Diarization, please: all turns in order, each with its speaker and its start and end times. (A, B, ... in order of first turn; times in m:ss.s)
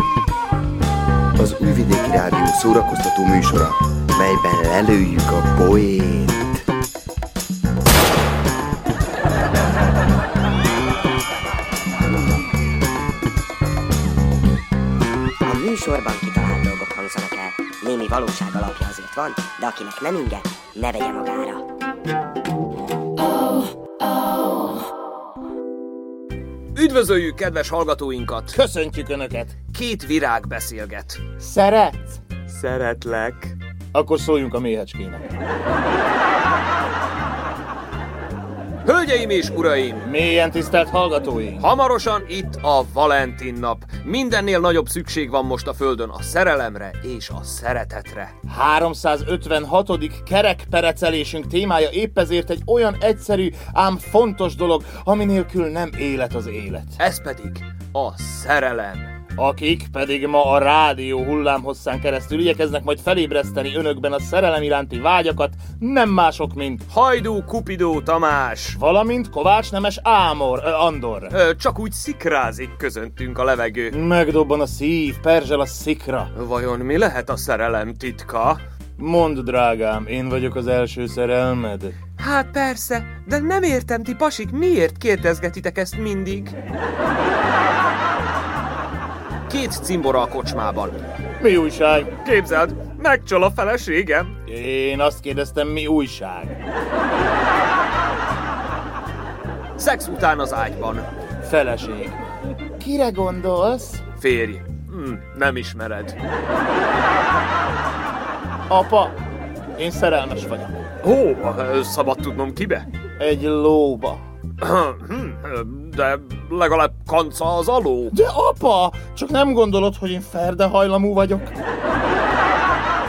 0:01.4-0:06.6 A
0:15.4-0:21.6 B
0:26.8-0:28.6 C
0:28.5-0:29.6 D
0:29.7-0:31.2 C
0:31.4-0:32.2 D
0:32.5-0:33.6 C
0:33.9-0:35.3 D
0:38.9-0:40.0 C
0:40.0-0:41.7 D
0:41.6-0:48.3 C
0:48.5-0:57.0 D
0:57.0-0:59.1 C
0:59.4-1:06.8 D
1:06.9-1:08.8 C
1:08.7-1:11.3 D
1:11.3-1:14.0 C
1:13.9-1:16.3 D
1:16.4-1:18.6 C
1:19.0-1:22.0 D
1:22.2-1:26.6 C
1:29.5-1:31.0 C
1:31.4-1:32.1 D
1:32.2-1:34.4 C
1:34.5-1:36.6 D
1:39.8-1:41.1 C
1:41.4-1:42.2 D
1:42.8-1:44.0 D
1:44.2-1:46.2 C
1:48.7-1:49.2 D
1:49.8-1:50.7 D
1:51.0-1:52.9 C
1:53.2-1:54.2 D
1:54.6-1:58.2 C
1:58.1-2:01.5 D